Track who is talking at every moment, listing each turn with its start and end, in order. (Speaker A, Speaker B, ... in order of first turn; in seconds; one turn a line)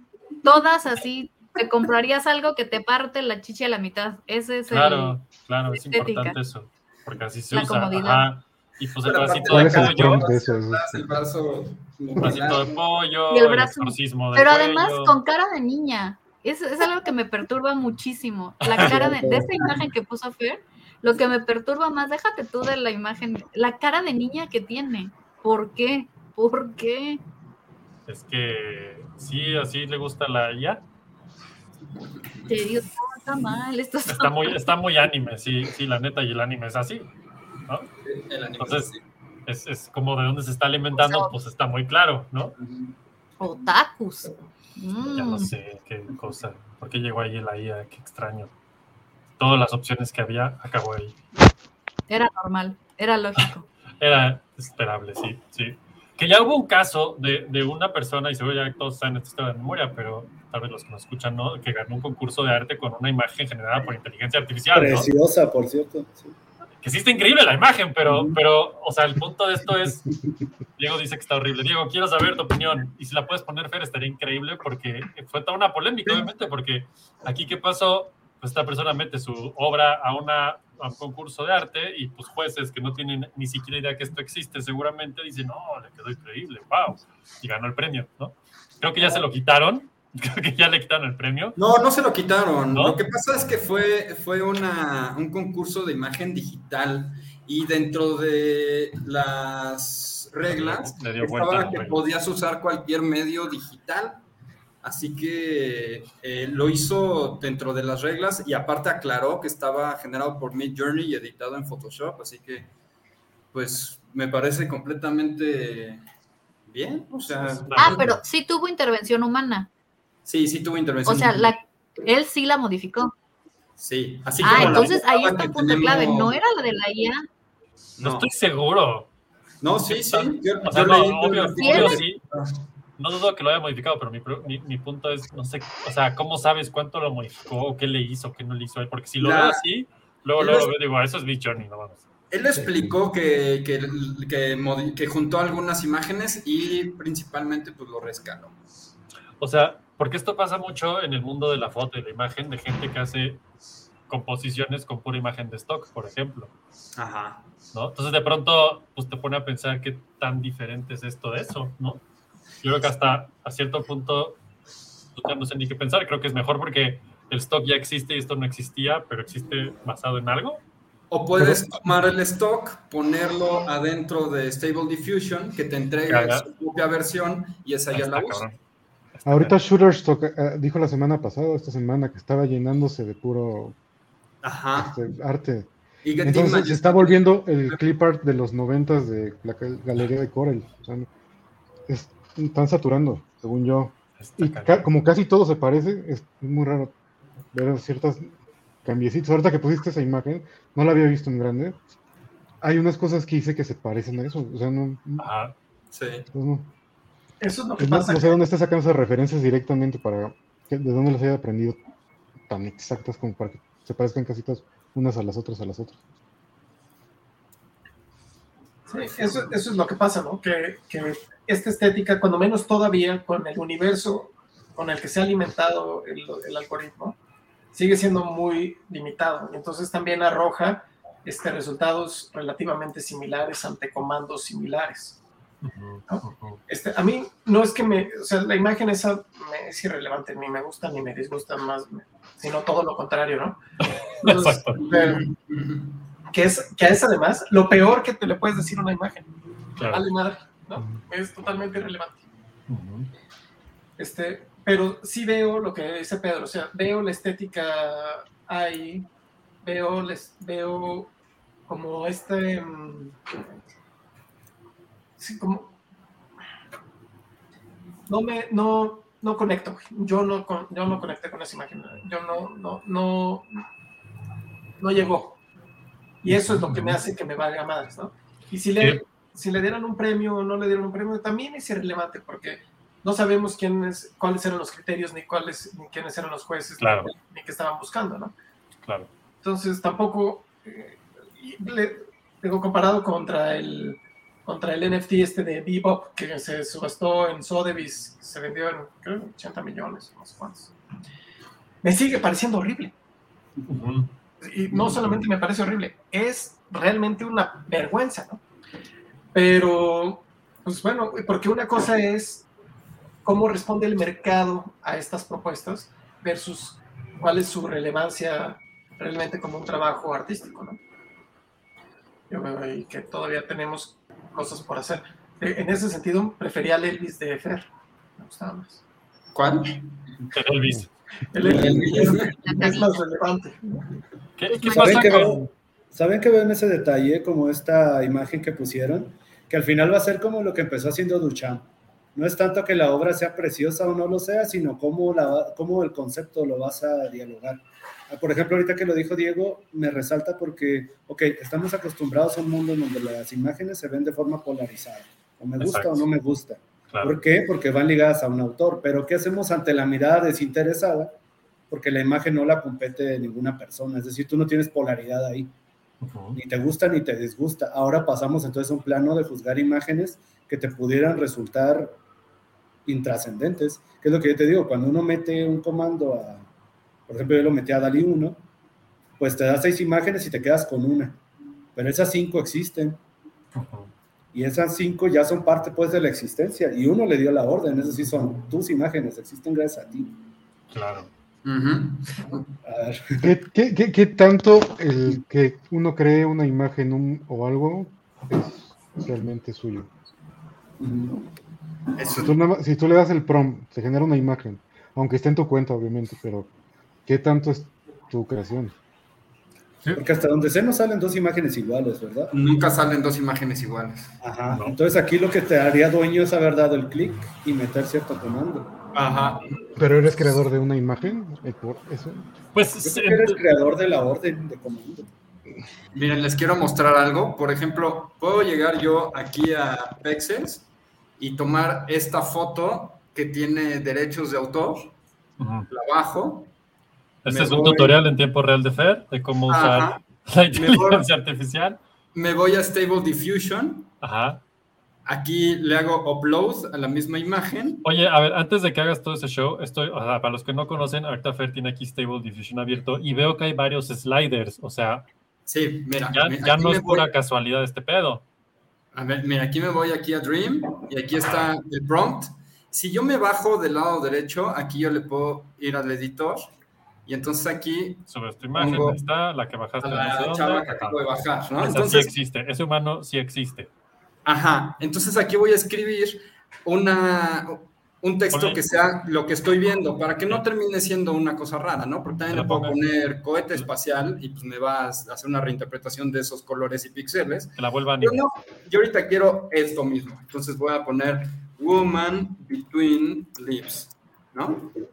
Speaker A: 0.4-5.2
Speaker B: 4.7-10.2
Speaker A: 5.7-6.4
Speaker A: 7.5-8.3
Speaker C: 9.0-12.7
Speaker D: 9.5-11.1
Speaker E: 12.0-12.4
Speaker B: 12.2-15.1
Speaker A: 13.3-27.2
Speaker B: 18.6-18.9
Speaker E: 18.8-19.7
Speaker B: 28.1-30.8
Speaker A: 32.5-34.6
Speaker B: 34.1-37.1
Speaker C: 38.0-39.0
Speaker B: 38.6-38.9
Speaker B: 39.5-42.5
Speaker A: 41.0-41.3
Speaker A: 43.4-45.5
Speaker B: 45.2-48.5
Speaker B: 49.4-51.2
Speaker A: 52.1-53.7
Speaker B: 54.0-65.1
Speaker E: 64.7-66.4
Speaker B: 66.8-70.0
Speaker E: 68.0-68.4
Speaker E: 70.0-70.4
Speaker B: 70.8-91.5
Speaker C: 91.6-104.2
Speaker B: 92.7-93.0
Speaker B: 100.5-102.0
Speaker C: 104.8-112.7
Speaker C: 113.5-116.0
Speaker C: 116.7-118.1
Speaker B: 117.7-118.2
Speaker A: 117.8-119.7
Speaker C: 120.2-121.5
Speaker A: 121.0-123.1
Speaker C: 123.8-126.4
Speaker A: 124.4-127.2
Speaker B: 124.5-124.8
Speaker B: 128.0-129.1
Speaker C: 129.6-132.6
Speaker B: 129.9-132.2
Speaker A: 131.6-132.0
Speaker B: 133.0-142.0
Speaker C: 139.2-139.6
Speaker C: 140.4-140.7
Speaker C: 142.3-148.6
Speaker E: 142.6-142.9
Speaker B: 149.4-153.4
Speaker B: 154.1-156.5
Speaker C: 156.9-157.5
Speaker B: 157.7-162.0
Speaker B: 162.6-164.4
Speaker B: 165.1-170.6
Speaker C: 171.1-178.5
Speaker B: 176.1-176.4
Speaker B: 177.9-178.6
Speaker B: 179.2-179.6
Speaker D: 179.3-183.8
Speaker C: 184.4-184.9
Speaker D: 184.7-191.1
Speaker C: 186.0-187.8
Speaker D: 191.9-196.9
Speaker B: 194.2-194.8
Speaker D: 197.5-198.3
Speaker D: 198.8-201.8
Speaker D: 202.6-205.2
Speaker B: 205.2-205.6
Speaker C: 205.9-206.3
Speaker D: 206.3-206.7
Speaker F: 207.4-208.4
Speaker D: 207.8-211.8
Speaker D: 212.5-216.0
Speaker F: 218.9-227.2
Speaker C: 218.9-219.4
Speaker F: 227.7-235.2
Speaker B: 235.6-236.6
Speaker F: 236.1-243.6
Speaker F: 244.2-245.2
Speaker B: 244.2-244.8
Speaker C: 244.9-245.9
Speaker F: 246.3-249.3
Speaker B: 249.8-250.1
Speaker F: 249.9-252.2
Speaker B: 250.8-251.0
Speaker B: 252.7-253.1
Speaker F: 254.0-259.1
Speaker F: 259.6-261.1
Speaker F: 261.7-263.2
Speaker F: 265.2-265.8
Speaker F: 268.1-273.6
Speaker F: 274.8-275.4
Speaker F: 276.2-288.4
Speaker B: 276.3-277.0
Speaker B: 286.8-287.1
Speaker B: 288.9-289.1
Speaker F: 289.4-300.7
Speaker F: 301.8-302.9
Speaker B: 303.7-304.1
Speaker F: 304.4-308.4
Speaker E: 304.8-305.1
Speaker F: 309.3-312.4
Speaker F: 313.2-320.8
Speaker F: 322.3-328.8
Speaker C: 329.4-329.8
Speaker B: 330.3-330.9
Speaker F: 331.3-333.6
Speaker C: 331.4-332.4
Speaker A: 332.2-333.4
Speaker B: 334.4-335.5
Speaker A: 334.5-335.3
Speaker E: 334.6-361.2
Speaker B: 355.6-356.1
Speaker B: 356.9-357.2
Speaker E: 361.7-365.5
Speaker B: 366.0-366.4
Speaker E: 366.4-372.0
Speaker E: 372.9-376.5
Speaker E: 377.1-378.4
Speaker E: 379.2-381.2
Speaker E: 381.8-383.0
Speaker B: 383.6-383.9
Speaker E: 384.3-390.1
Speaker B: 390.7-391.1
Speaker C: 391.4-392.5
Speaker E: 392.6-393.3
Speaker D: 393.2-399.9
Speaker E: 400.8-401.2
Speaker C: 402.0-402.3
Speaker D: 402.1-406.5
Speaker D: 407.1-408.8
Speaker E: 409.9-412.3
Speaker C: 412.3-414.1
Speaker E: 414.2-418.7
Speaker B: 414.5-414.8
Speaker C: 418.9-419.6
Speaker D: 419.8-422.3
Speaker B: 422.5-423.4
Speaker E: 422.8-425.1
Speaker C: 425.9-434.9
Speaker B: 435.4-435.7
Speaker C: 435.7-436.5
Speaker B: 437.2-441.8
Speaker C: 437.3-438.0
Speaker C: 439.5-441.1
Speaker C: 442.1-443.9
Speaker B: 444.0-444.4
Speaker C: 445.1-447.8
Speaker B: 447.8-455.1
Speaker C: 455.4-457.1
Speaker B: 456.1-458.2
Speaker C: 458.9-466.5
Speaker C: 467.1-469.0
Speaker B: 468.1-473.7
Speaker C: 469.8-472.1
Speaker C: 474.2-494.7
Speaker B: 478.3-478.6
Speaker B: 482.3-482.8
Speaker B: 487.6-488.2